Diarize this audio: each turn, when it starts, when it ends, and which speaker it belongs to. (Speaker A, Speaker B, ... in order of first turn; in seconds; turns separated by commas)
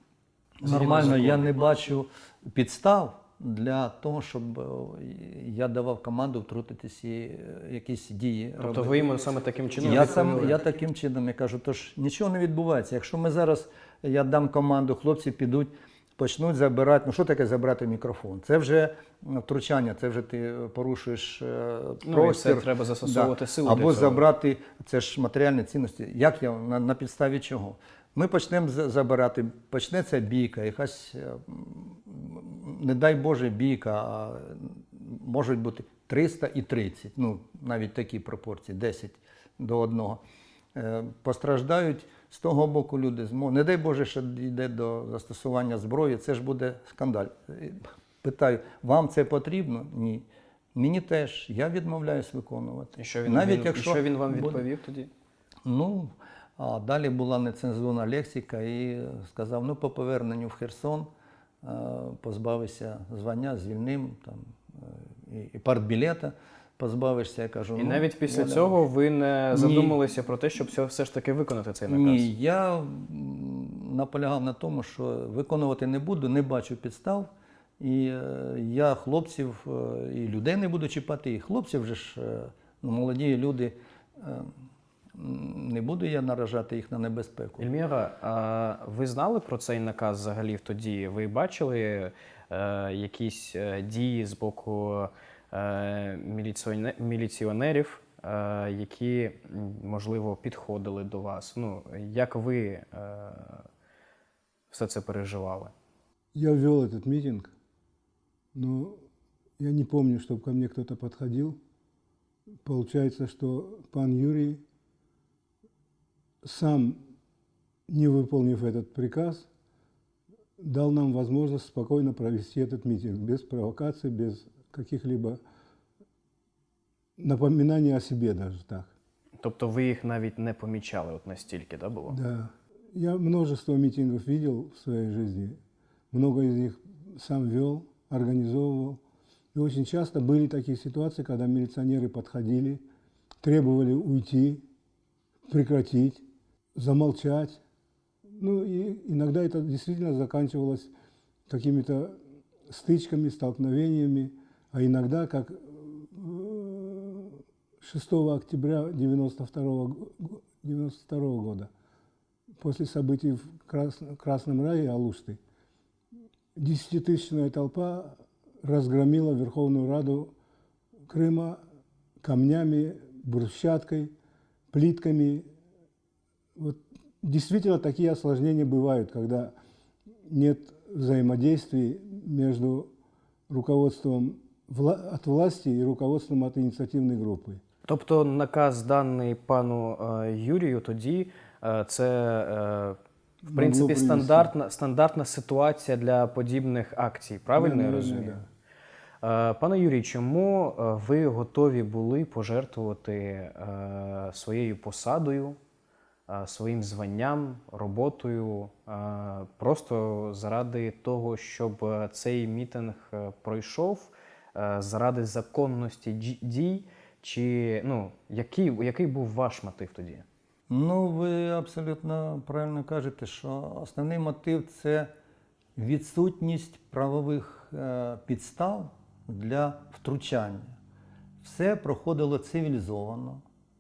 Speaker A: 0.6-9.1, Speaker B: 0.6-1.6, Speaker B: 8.6-10.6, Speaker A: 9.8-40.2, Speaker B: 22.0-24.3, Speaker A: 40.8-54.6, Speaker B: 53.0-55.1, Speaker A: 55.6-61.1, Speaker A: 61.6-68.8, Speaker B: 67.8-72.3, Speaker A: 69.5-70.0, Speaker A: 71.9-77.3, Speaker A: 77.8-84.5, Speaker A: 85.1-87.7, Speaker B: 87.6-103.7, Speaker B: 104.7-105.7, Speaker C: 106.3-107.5, Speaker C: 108.5-109.1, Speaker C: 109.6-111.6, Speaker C: 112.6-114.6, Speaker C: 116.4-117.0, Speaker C: 117.9-119.5, Speaker C: 120.6-125.4, Speaker C: 127.2-128.9, Speaker B: 129.4-132.2, Speaker C: 132.1-135.6, Speaker C: 136.1-139.0, Speaker C: 139.5-142.9, Speaker C: 143.4-144.7, Speaker C: 145.5-147.6, Speaker C: 148.3-150.9, Speaker C: 151.5-161.7, Speaker C: 162.6-165.4, Speaker C: 166.6-170.3, Speaker C: 171.1-171.6, Speaker C: 172.2-174.1, Speaker C: 174.7-175.5, Speaker C: 176.6-179.5, Speaker C: 180.2-182.9, Speaker C: 183.5-187.6, Speaker B: 187.9-193.0, Speaker C: 193.4-194.5, Speaker B: 193.5-198.4, Speaker C: 197.6-198.5, Speaker B: 199.2-205.6, Speaker B: 206.3-220.3, Speaker A: 220.7-225.1, Speaker A: 225.8-230.8, Speaker A: 231.4-233.4